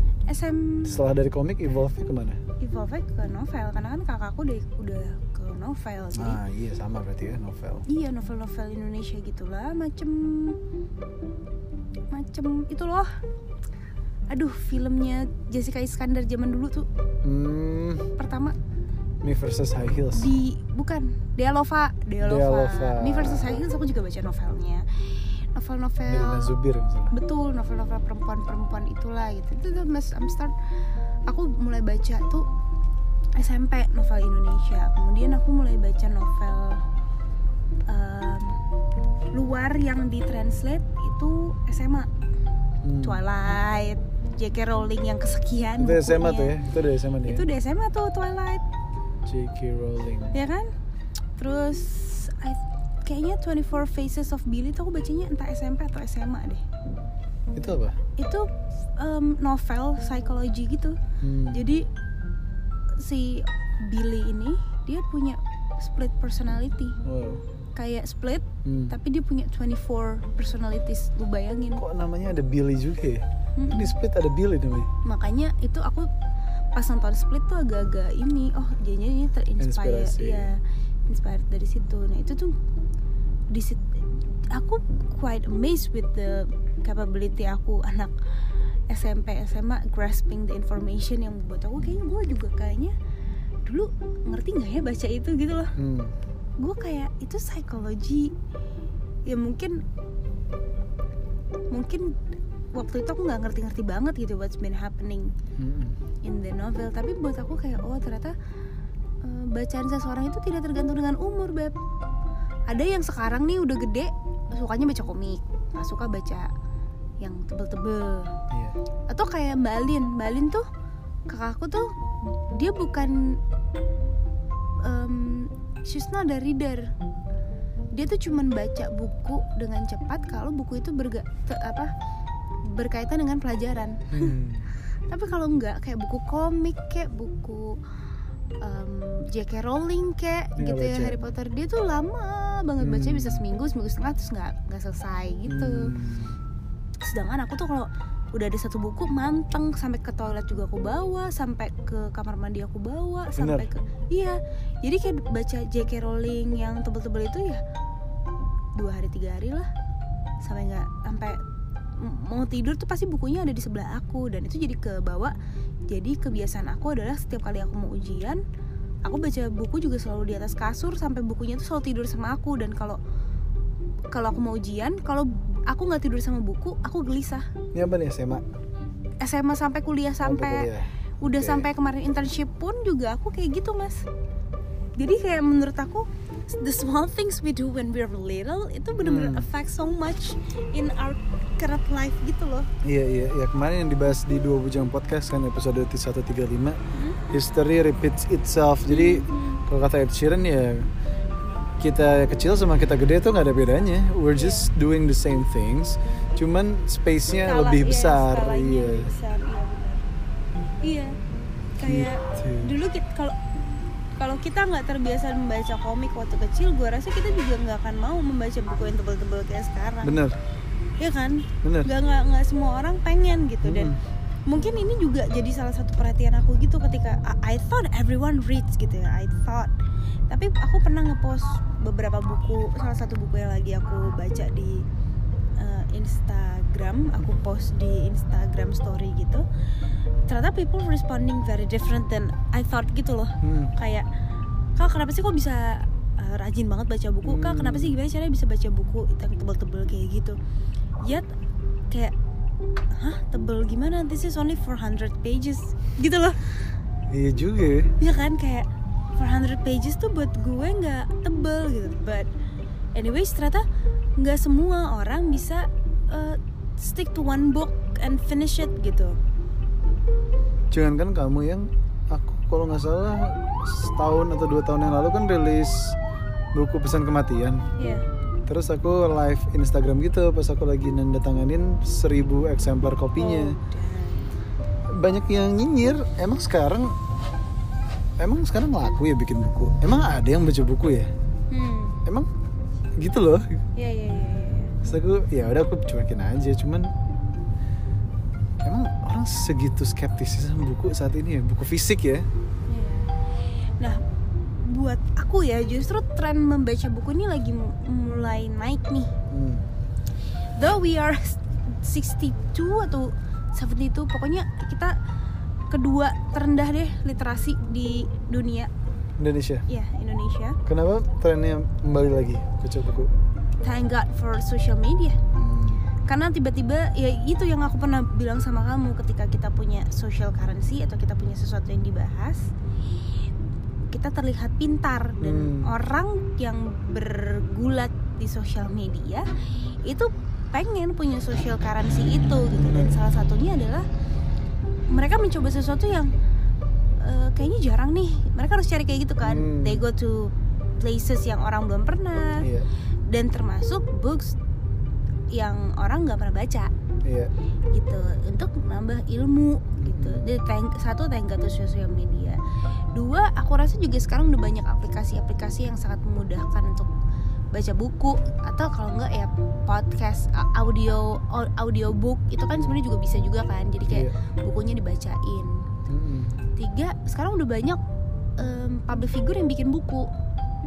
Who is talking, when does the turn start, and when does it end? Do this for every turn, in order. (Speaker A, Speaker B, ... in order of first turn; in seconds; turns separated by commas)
Speaker A: 0.3-1.0, Speaker B: 0.8-2.4, Speaker A: 2.6-6.4, Speaker B: 6.1-7.8, Speaker A: 7.9-10.6, Speaker A: 12.1-13.1, Speaker A: 14.3-16.9, Speaker B: 17.2-18.1, Speaker A: 18.2-18.5, Speaker B: 19.2-20.3, Speaker A: 20.1-24.8, Speaker B: 22.2-23.6, Speaker A: 25.5-26.5, Speaker B: 26.0-27.1, Speaker A: 27.1-30.5, Speaker A: 31.3-32.5, Speaker A: 33.4-36.8, Speaker A: 37.9-38.6, Speaker A: 39.3-42.1, Speaker B: 42.8-43.2, Speaker A: 43.0-46.5, Speaker B: 45.8-47.5, Speaker A: 47.2-48.6, Speaker B: 49.2-50.4, Speaker A: 50.3-50.6, Speaker A: 51.4-56.6, Speaker B: 57.5-58.0, Speaker A: 58.2-61.0, Speaker B: 61.2-61.7, Speaker A: 61.5-61.9, Speaker A: 63.0-67.0, Speaker B: 67.0-67.4, Speaker A: 67.8-71.8, Speaker B: 68.6-68.9, Speaker B: 71.8-74.9, Speaker A: 73.6-73.9, Speaker A: 75.0-76.1, Speaker A: 76.7-80.6, Speaker B: 79.6-80.5, Speaker A: 81.1-82.5, Speaker A: 83.5-83.9, Speaker A: 84.5-88.1, Speaker A: 88.9-92.9, Speaker A: 93.6-95.7, Speaker B: 95.8-96.1, Speaker A: 96.6-98.3, Speaker A: 99.3-99.8, Speaker A: 101.7-102.1, Speaker A: 102.7-105.3, Speaker B: 105.6-106.0, Speaker A: 106.2-108.3, Speaker A: 109.2-111.7, Speaker A: 112.7-116.5, Speaker A: 117.2-118.3, Speaker B: 118.5-118.8, Speaker A: 119.1-120.6, Speaker A: 121.3-121.9, Speaker A: 122.5-123.4, Speaker A: 124.8-126.9, Speaker A: 127.9-131.9, Speaker A: 132.7-134.4, Speaker B: 134.1-134.7, Speaker A: 135.1-137.8, Speaker A: 138.6-145.9, Speaker B: 140.6-141.2, Speaker B: 142.8-143.4, Speaker B: 145.5-146.4, Speaker A: 147.0-157.6, Speaker B: 153.3-153.7, Speaker A: 158.8-159.7, Speaker A: 160.4-161.4, Speaker A: 162.0-165.3, Speaker A: 165.9-168.4, Speaker A: 169.0-173.0, Speaker A: 174.1-177.5, Speaker B: 177.7-178.4, Speaker A: 179.2-180.7, Speaker B: 180.2-181.7, Speaker A: 181.2-184.0, Speaker A: 185.0-192.7, Speaker B: 189.0-189.5, Speaker B: 192.8-196.8, Speaker A: 196.9-197.2, Speaker B: 197.3-200.9, Speaker A: 198.9-199.6, Speaker B: 201.8-209.1, Speaker A: 204.3-204.7, Speaker A: 207.4-210.0, Speaker A: 210.8-211.2, Speaker A: 211.8-213.3, Speaker B: 211.8-212.7, Speaker A: 214.2-220.2, Speaker B: 220.0-220.4, Speaker A: 221.0-223.9, Speaker B: 221.6-221.9, Speaker B: 223.6-224.0, Speaker A: 224.5-229.7, Speaker A: 230.3-234.8, Speaker A: 235.6-239.4, Speaker A: 240.3-244.1, Speaker B: 243.4-243.7, Speaker A: 244.8-250.3, Speaker B: 247.2-247.9, Speaker A: 251.0-251.3, Speaker A: 252.9-256.4, Speaker B: 257.1-257.9, Speaker A: 258.0-258.6, Speaker A: 259.2-262.3, Speaker A: 262.9-263.6, Speaker A: 264.2-269.2, Speaker B: 270.7-276.0, Speaker B: 276.5-277.6, Speaker A: 277.8-278.1, Speaker B: 278.5-283.6, Speaker A: 283.1-284.3, Speaker B: 284.9-287.0, Speaker B: 288.2-291.1, Speaker A: 291.5-292.0, Speaker B: 293.0-293.6, Speaker A: 293.8-294.8, Speaker B: 294.8-296.9, Speaker B: 298.6-302.2, Speaker A: 302.7-303.1, Speaker A: 304.6-309.1, Speaker B: 309.3-309.6, Speaker A: 310.6-314.9, Speaker A: 315.7-318.7, Speaker B: 319.2-319.6, Speaker A: 319.7-320.6, Speaker B: 320.6-323.1, Speaker A: 323.6-325.2, Speaker B: 325.3-325.9, Speaker A: 326.1-332.5, Speaker A: 333.9-339.3, Speaker B: 335.2-335.7, Speaker A: 339.8-343.9, Speaker B: 342.5-342.9, Speaker A: 344.9-346.1, Speaker A: 347.0-352.5, Speaker B: 349.2-349.8, Speaker B: 352.4-352.7, Speaker A: 353.1-354.4, Speaker A: 355.3-356.7, Speaker B: 357.0-357.3, Speaker A: 357.7-362.4, Speaker B: 359.8-360.3, Speaker A: 362.9-366.9, Speaker A: 367.5-375.7, Speaker B: 375.9-376.4, Speaker A: 376.6-377.8, Speaker A: 378.4-380.1